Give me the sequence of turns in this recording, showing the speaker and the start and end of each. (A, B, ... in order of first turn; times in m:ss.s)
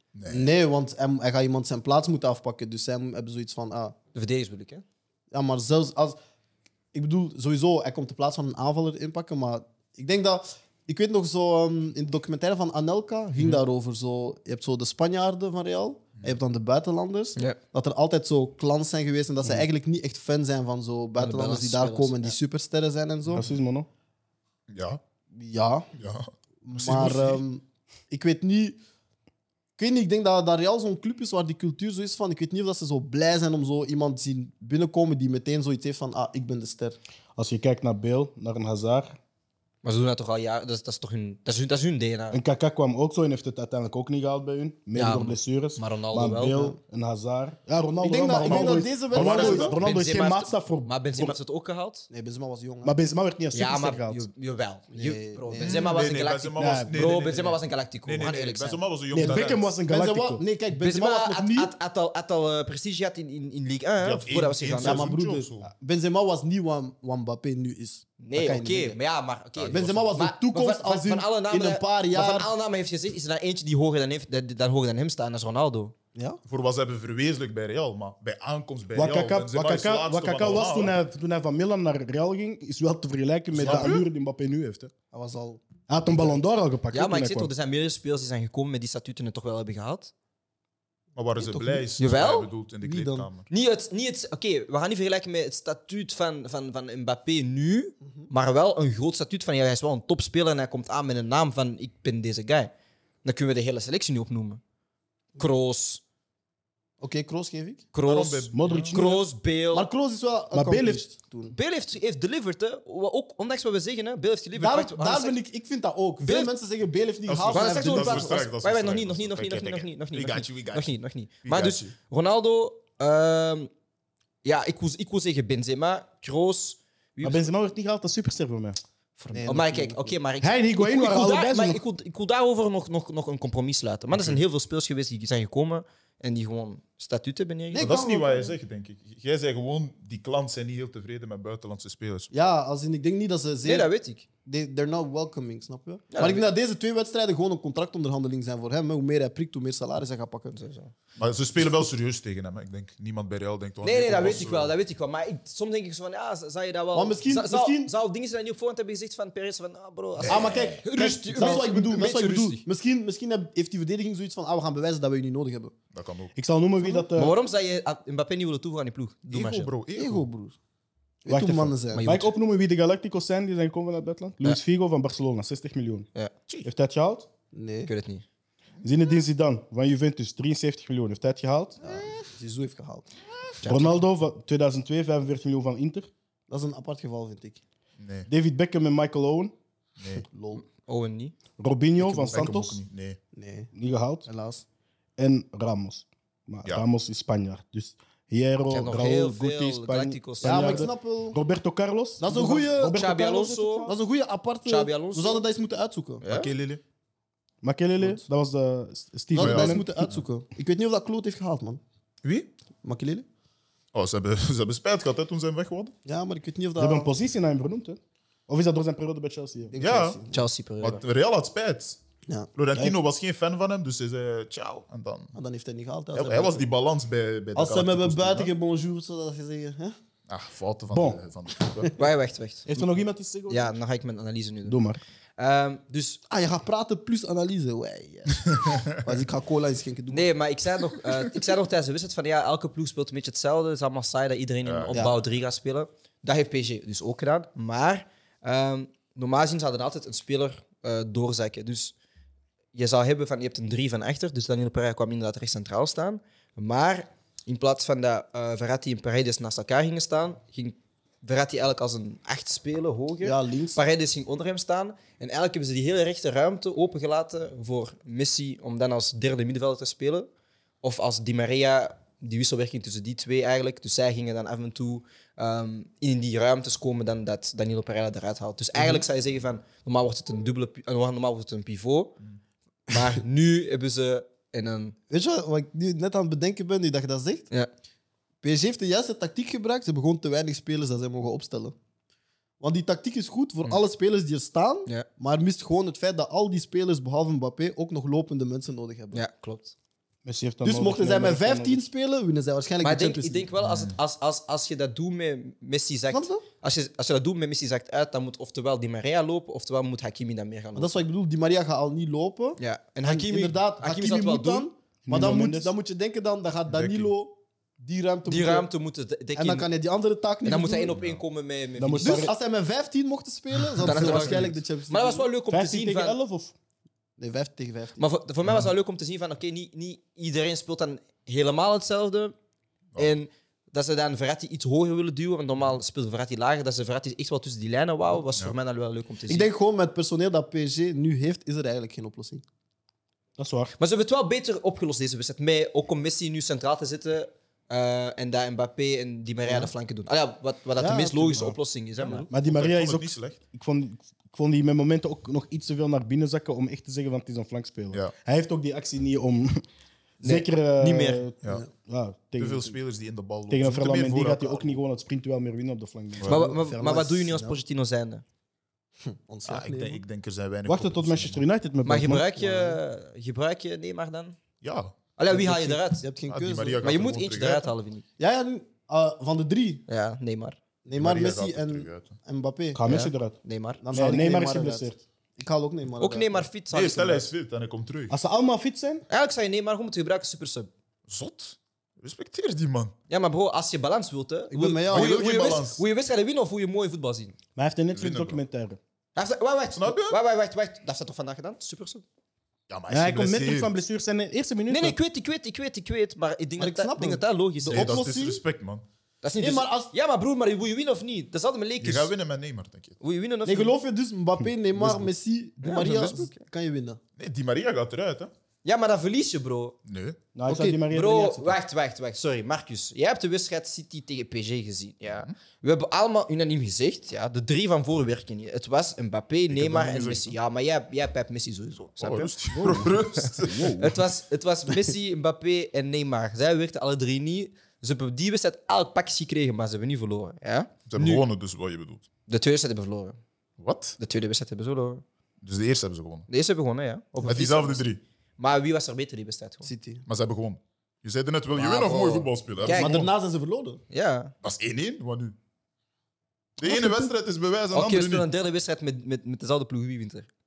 0:00.2-0:00.5 A
0:00.3-0:04.0 B
0:04.1-0:04.8 C
0:05.3-0:06.2 B
0:06.9-0:23.5 B
0:21.2-0:22.4 C
0:23.3-0:23.9 D
0:24.7-0:25.0 A
0:25.3-0:25.9 B
0:26.0-0:27.4 A
0:26.6-0:28.8 B
0:29.8-0:37.0 B
0:37.4-0:39.2 D
0:39.8-0:42.4 C
0:42.3-0:51.4 D
0:45.0-0:46.8 C
0:48.0-0:49.8 B
0:48.5-0:49.8 A
0:49.2-0:52.1 C
0:52.1-0:52.9 B
0:52.8-0:54.3 D
0:53.5-0:58.8 C
0:54.9-0:55.9 B
0:55.6-0:59.7 A
0:56.6-0:57.1 D
0:59.1-1:00.4 D
0:59.2-1:01.7 B
1:00.8-1:05.1 C
1:04.0-1:05.7 A
1:04.8-1:09.0 B
1:08.2-1:15.9 C
1:09.6-1:10.1 A
1:09.6-1:12.5 B
1:16.2-1:16.4 B
1:16.5-1:21.0 A
1:19.0-1:24.9 D
1:23.5-1:24.0 A
1:23.7-1:23.9 B
1:25.1-1:26.4 B
1:25.9-1:27.5 D
1:26.9-1:30.1 C
1:31.2-1:33.5 A
1:31.4-1:31.9 B
1:32.0-1:32.5 C
1:32.8-1:33.3 B
1:33.5-1:42.7 C
1:43.2-1:44.6 C
1:45.4-1:46.0 C
1:47.0-1:47.9 B
1:47.9-1:49.9 C
1:48.0-1:49.0 A
1:48.5-1:49.2 D
1:49.7-1:51.6 B
1:50.5-1:51.0 D
1:51.5-1:55.4 C
1:54.6-1:58.4 B
1:56.2-1:56.5 C
1:57.3-2:01.9 A
1:57.5-2:03.7 C
2:04.4-2:07.5 C
2:07.2-2:08.8 D
2:09.2-2:18.0 C
2:09.3-2:10.2 B
2:10.4-2:11.8 D
2:14.1-2:14.4 A
2:17.7-2:18.6 B
2:17.8-2:22.3 A
2:22.3-2:23.9 B
2:23.6-2:24.2 C
2:24.4-2:30.6 B
2:26.1-2:26.4 C
2:30.5-2:30.9 C
2:31.2-2:34.7 A
2:33.8-2:42.6 C
2:36.9-2:37.9 B
2:40.2-2:40.8 A
2:40.3-2:45.7 B
2:45.9-2:46.3 A
2:46.4-2:47.3 D
2:47.0-2:49.7 C
2:49.3-2:50.3 A
2:49.9-2:50.6 B
2:51.2-2:52.1 B
2:51.3-2:56.1 D
2:51.9-2:52.3 C
2:56.6-2:57.3 D
2:57.5-2:57.9 B
2:57.9-2:58.2 C
2:58.8-3:01.8 D
3:01.8-3:03.1 B
3:03.6-3:04.0 C
3:03.6-3:06.1 D
3:06.5-3:07.6 B
3:08.0-3:08.3 A
3:08.3-3:09.5 D
3:10.0-3:10.2 A
3:10.2-3:10.6 B
3:10.8-3:11.3 C
3:11.6-3:12.8 D
3:12.0-3:13.2 A
3:13.3-3:13.7 B
3:13.7-3:14.3 D
3:14.3-3:14.6 B
3:15.2-3:24.0 D
3:18.7-3:20.9 C
3:20.4-3:21.4 B
3:22.2-3:23.0 B
3:22.9-3:23.9 C
3:23.9-3:26.2 B
3:24.7-3:25.4 C
3:26.2-3:26.5 C
3:26.3-3:26.8 A
3:27.6-3:29.9 D
3:29.3-3:31.8 B
3:29.4-3:30.2 A
3:32.2-3:32.5 A
3:32.8-3:33.3 B
3:33.9-3:35.9 A
3:36.0-3:37.1 B
3:36.8-3:39.8 D
3:39.7-3:40.5 B
3:39.8-3:40.2 A
3:40.3-3:41.0 C
3:40.8-3:42.0 A
3:42.6-3:45.3 A
3:45.4-3:46.7 B
3:46.1-3:48.5 A
3:47.6-3:50.0 B
3:50.3-3:52.0 A
3:50.9-3:51.2 D
3:52.0-3:52.9 C
3:52.7-3:53.7 D
3:53.5-3:54.8 C
3:54.6-3:55.0 D
3:55.4-3:56.2 C
3:56.3-4:00.3 B
4:00.1-4:11.9 C
4:04.6-4:05.1 A
4:04.9-4:05.2 B
4:12.7-4:30.3 C
4:23.2-4:23.8 B
4:30.8-4:42.2 C
4:38.8-4:39.0 B
4:42.9-4:45.0 C
4:45.1-4:47.5 B
4:48.4-4:51.8 B
4:52.6-4:59.2 B
4:59.1-4:59.7 C
5:00.2-5:01.9 D
5:00.6-5:03.5 B
5:02.8-5:11.0 C
5:03.6-5:04.0 A
5:06.1-5:06.4 B
5:10.8-5:18.7 B
5:12.6-5:14.7 C
5:15.1-5:15.7 D
5:16.7-5:17.1 A
5:18.3-5:19.7 C
5:19.4-5:21.0 B
5:20.4-5:22.3 C
5:20.9-5:21.2 A
5:21.8-5:22.3 D
5:22.0-5:25.3 B
5:23.6-5:24.5 A
5:23.8-5:26.2 C
5:25.5-5:26.6 D
5:27.2-5:28.0 B
5:28.0-5:32.3 C
5:33.0-5:39.5 C
5:39.3-5:42.4 B
5:43.4-5:43.7 D
5:43.8-5:52.3 C
5:49.5-5:49.7 B
5:50.8-5:52.3 B
5:52.0-5:53.4 A
5:52.3-5:59.6 D
6:00.2-6:01.3 C
6:00.2-6:02.8 D
6:02.4-6:04.8 A
6:03.5-6:06.5 D
6:06.3-6:08.2 C
6:06.3-6:07.6 B
6:09.0-6:10.0 B
6:09.5-6:11.4 A
6:10.7-6:12.3 D
6:11.8-6:14.4 C
6:12.4-6:12.8 B
6:14.6-6:15.0 A
6:15.2-6:16.1 C
6:15.3-6:16.9 B
6:16.3-6:17.7 A
6:16.8-6:18.0 C
6:18.2-6:19.8 B
6:19.9-6:20.6 C
6:20.8-6:22.8 B
6:21.0-6:22.2 A
6:22.7-6:23.4 D
6:22.9-6:23.8 C
6:23.8-6:26.5 B
6:23.9-6:25.0 D
6:26.0-6:27.3 C
6:26.7-6:28.1 A
6:28.1-6:29.0 D
6:29.1-6:30.7 C
6:31.1-6:32.9 A
6:33.1-6:37.3 C
6:34.5-6:35.2 B
6:34.9-6:35.8 A
6:37.6-6:38.8 D
6:37.9-6:38.4 A
6:39.2-6:42.0 C
6:39.7-6:40.2 A
6:42.7-6:43.7 A
6:42.9-6:45.0 D
6:44.7-6:48.0 C
6:46.6-6:48.4 B
6:47.7-6:48.8 A
6:49.2-6:52.1 C
6:49.4-6:49.9 B
6:51.8-6:53.0 A
6:53.0-6:53.8 C
6:53.4-6:57.0 B
6:55.6-6:56.4 C
6:57.2-6:58.3 A
6:58.6-6:59.8 C
6:59.9-7:00.2 A
7:00.4-7:01.6 D
7:00.5-7:00.8 B
7:00.8-7:21.2 C
7:09.5-7:10.3 A
7:12.0-7:14.0 A
7:12.6-7:12.9 D
7:20.9-7:22.1 A
7:22.3-7:23.2 C
7:23.6-7:24.0 A
7:24.0-7:25.0 C
7:25.4-7:26.3 A
7:26.3-7:27.8 C
7:27.2-7:28.0 A
7:28.4-7:29.7 C
7:29.6-7:30.0 B
7:30.1-7:33.1 A
7:31.6-7:33.1 C
7:32.7-7:33.8 B
7:33.9-7:34.3 C
7:34.4-7:35.4 A
7:36.6-7:38.3 A
7:36.6-7:37.1 B
7:37.7-7:40.3 C